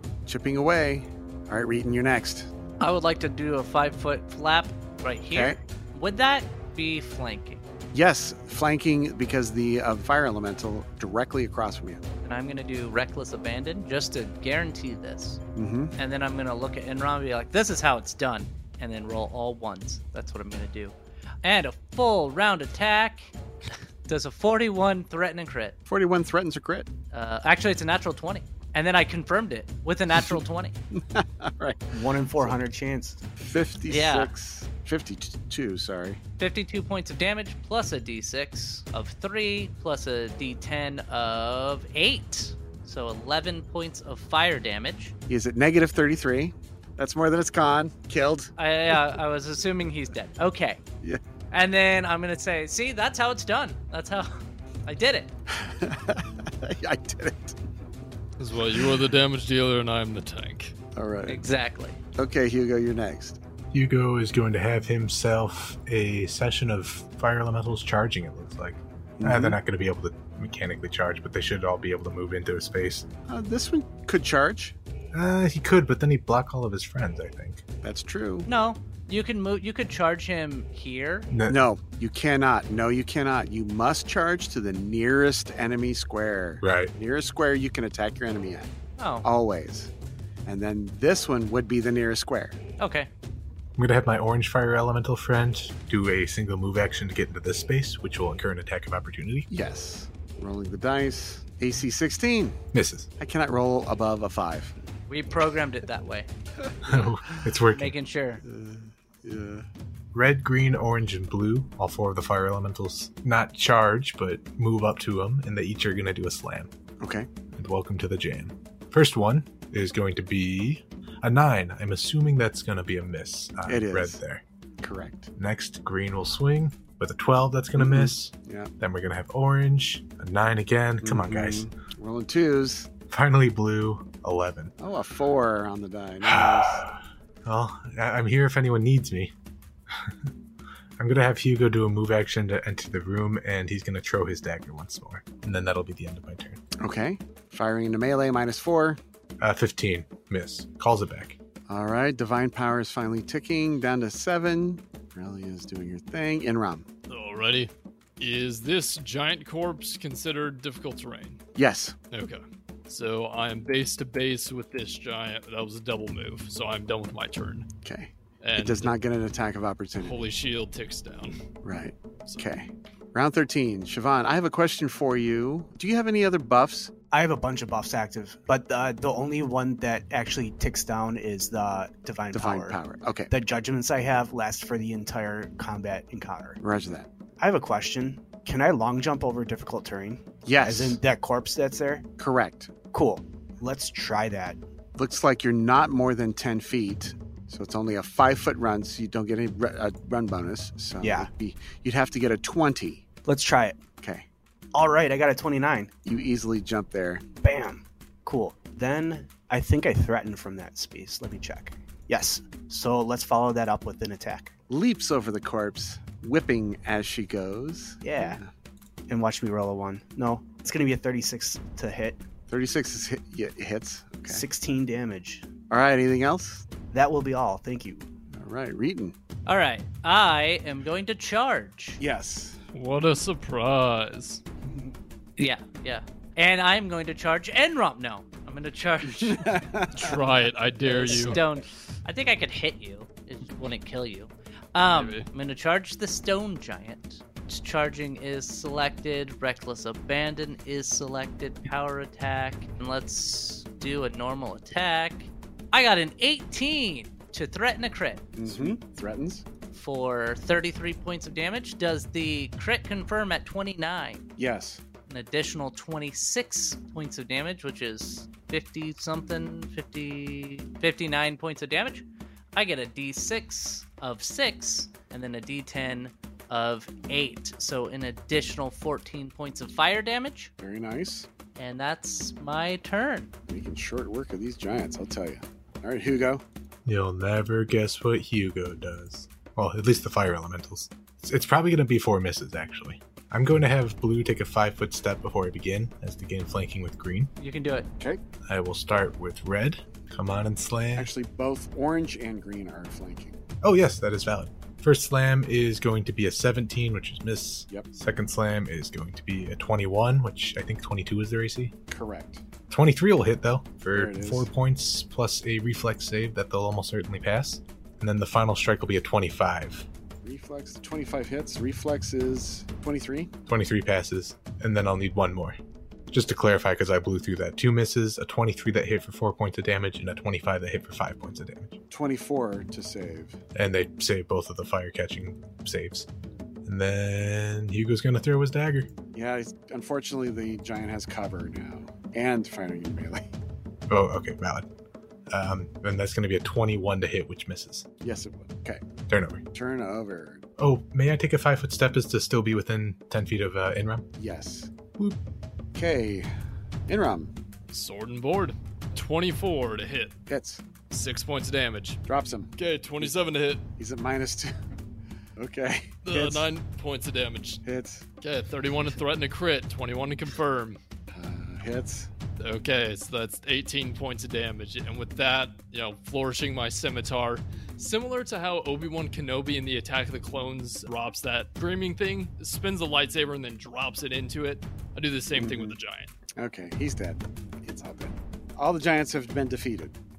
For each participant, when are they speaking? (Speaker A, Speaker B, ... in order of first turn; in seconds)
Speaker A: 0.2-2.5, 5.3-5.6, 7.9-12.0, 15.6-15.9, 25.9-26.9, 30.9-32.6, 33.4-36.2, 45.3-48.5, 55.5-57.6, 60.9-61.4, 62.1-63.4, 69.2-69.6, 73.3-74.7, 77.8-78.5, 81.5-88.7, 89.2-89.9, 90.4-92.6, 99.5-102.6, 103.2-104.7, 108.4-109.7, 117.0-117.3, 123.7-124.2, 124.8-125.3, 127.8-128.7, 131.0-132.9, 134.8-136.8, 146.8-149.0, 151.7-156.9, 161.6-161.9, 167.8-170.2, 171.6-176.9, 182.3-183.3, 186.6-187.1, 190.4-191.0, 192.2-192.7, 194.9-203.0, 204.0-204.2, 206.0-207.2, 214.7-218.5, 222.5-224.4, 225.7-226.7, 228.3-229.1, 232.0-232.6, 239.1-240.2, 258.4-259.4, 264.4-264.8, 280.6-281.3, 283.5-286.4, 300.9-303.4, 311.9-312.4, 313.9-314.5, 320.2-323.3, 331.9-333.4, 339.1-343.3, 348.0-348.9, 349.5-350.4, 354.1-354.7, 355.7-356.3, 356.9-357.3, 360.3-360.6, 362.1-363.1, 363.8-364.5, 365.4-366.5, 367.6-368.0, 371.1-372.1, 385.3-385.7, 386.4-389.9
Speaker B: 2.8-7.6, 12.2-15.4, 15.9-23.3, 24.1-25.8, 27.1-30.7, 33.9-34.3, 36.4-45.1, 48.6-50.8, 51.5-55.3, 61.2-62.0, 78.5-81.3, 89.0-89.2, 92.8-93.1, 105.1-106.3, 107.7-108.4, 229.4-232.0, 235.4-239.6, 240.8-258.3, 259.7-264.3, 265.1-280.5, 281.6-283.3, 297.4-297.9
Speaker C: 31.9-33.2, 177.1-186.6, 187.4-192.1, 192.9-194.6, 201.0-201.3, 203.2-203.8, 204.7-205.9, 207.4-214.5, 218.0-218.4, 219.1-222.2, 224.3-225.4, 226.9-228.1
Speaker D: 58.4-60.7, 157.1-161.4, 162.1-167.7, 168.4-168.9, 170.0-171.4, 232.7-234.4, 239.9-241.4, 244.9-245.3, 357.7-360.1, 360.9-362.0, 362.6-363.6, 366.0-367.6, 368.2-370.8, 372.4-386.1
Speaker E: 63.7-73.0, 75.1-77.6, 81.3-81.6, 86.6-86.9, 93.8-99.5, 102.7-103.1, 106.8-108.0, 110.1-116.7, 117.5-124.4, 125.3-131.7, 133.0-134.7, 136.2-139.3, 139.9-140.3, 141.0-146.6, 149.4-151.4, 286.8-297.3, 298.4-301.1, 303.6-311.7, 312.7-319.9, 323.5-325.6, 326.1-331.8, 333.5-336.1, 336.6-338.9, 343.9-344.7, 345.3-347.9, 349.1-349.4, 350.6-354.1